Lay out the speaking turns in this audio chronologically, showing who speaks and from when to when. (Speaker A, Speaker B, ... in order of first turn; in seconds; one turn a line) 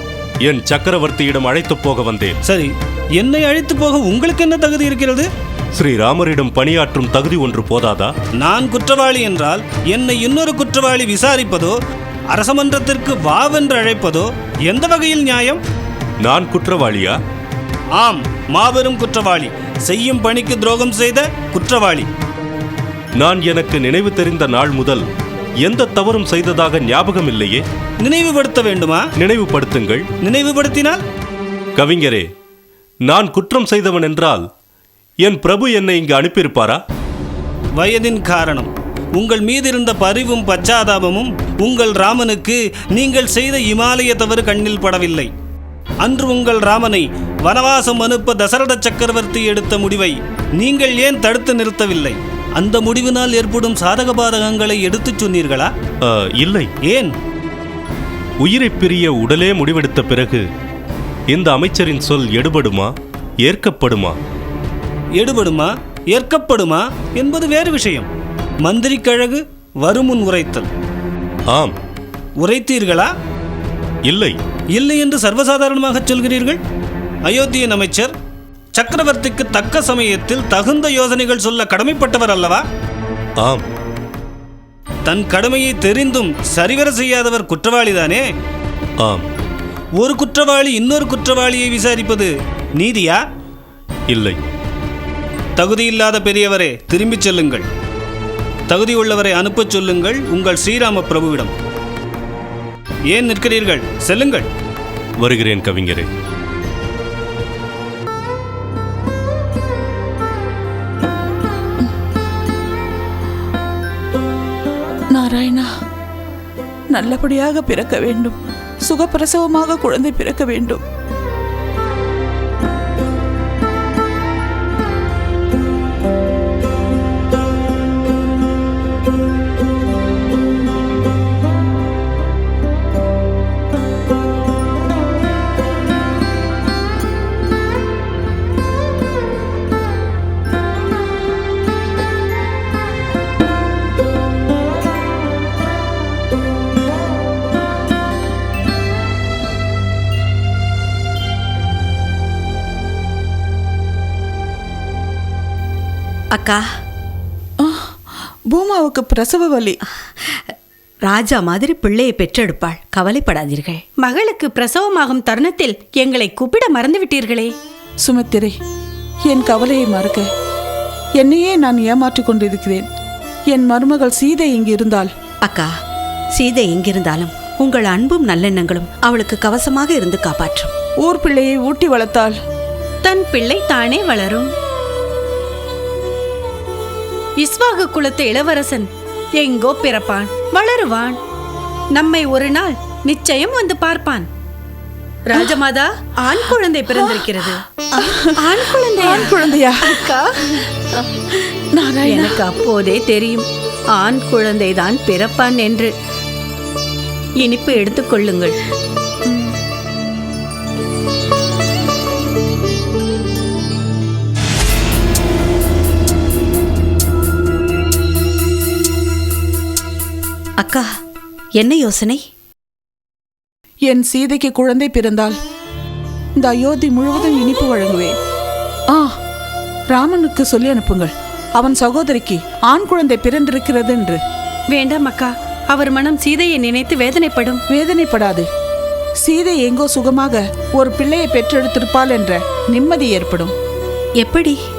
Speaker A: 0.5-2.4
Speaker B: 2.5-5.3
Speaker A: 5.8-8.1
Speaker B: 8.4-11.8
Speaker B: 12.3-15.6
Speaker A: 16.2-17.1
Speaker B: 18.0-22.1
Speaker A: 23.2-25.0
Speaker A: 25.6-27.6
Speaker B: 28.0-29.1
Speaker A: 29.2-30.1
Speaker B: 30.2-31.0
Speaker A: 31.8-32.2
Speaker A: 33.1-34.5
Speaker A: 35.2-36.8
Speaker B: 37.8-45.3
Speaker B: 46.0-55.7
Speaker A: 56.1-56.7
Speaker B: 56.9-57.1
Speaker A: 58.4-60.4
Speaker A: 61.3-62.9
Speaker A: 63.4-64.2
Speaker B: 65.2-68.1
Speaker B: 68.6-70.7
Speaker B: 72.4-73.1
Speaker A: 74.1-74.4
Speaker B: 74.7-76.6
Speaker B: 77.3-78.1
Speaker B: 78.8-82.7
Speaker B: 85.1-88.2
Speaker B: 90.0-93.2
Speaker A: 94.1-94.4
Speaker B: 95.6-97.7
Speaker B: 98.7-101.5
Speaker B: 103.1-104.5
Speaker A: 105.2-106.1
Speaker C: 115.1-115.7
Speaker C: 116.9-120.8
Speaker D: 156.3-156.6
Speaker C: 157.6-157.9
Speaker C: 158.5-159.8
Speaker D: 161.1-163.8
Speaker E: 164.0-167.5
Speaker C: 168.0-168.5
Speaker C: 169.3-170.3
Speaker C: 171.2-172.8
Speaker C: 173.5-175.1
Speaker D: 175.4-175.7
Speaker D: 176.4-180.7
Speaker C: 181.0-182.4
Speaker E: 183.0-184.5
Speaker E: 187.4-191.2
Speaker E: 191.9-194.3
Speaker E: 195.3-197.6
Speaker C: 196.9-197.3
Speaker C: 198.0-200.1
Speaker E: 198.4-199.3
Speaker E: 200.0-200.3
Speaker C: 201.8-202.6
Speaker E: 202.1-205.9
Speaker E: 207.4-208.6
Speaker E: 209.3-209.5
Speaker D: 220.6-220.9
Speaker D: 221.6-222.2
Speaker C: 223.9-225.3
Speaker C: 226.4-228.1
Speaker C: 229.9-234.2
Speaker E: 234.7-237.6
Speaker C: 237.7-238.5
Speaker C: 239.2-243.5
Speaker E: 244.2-244.6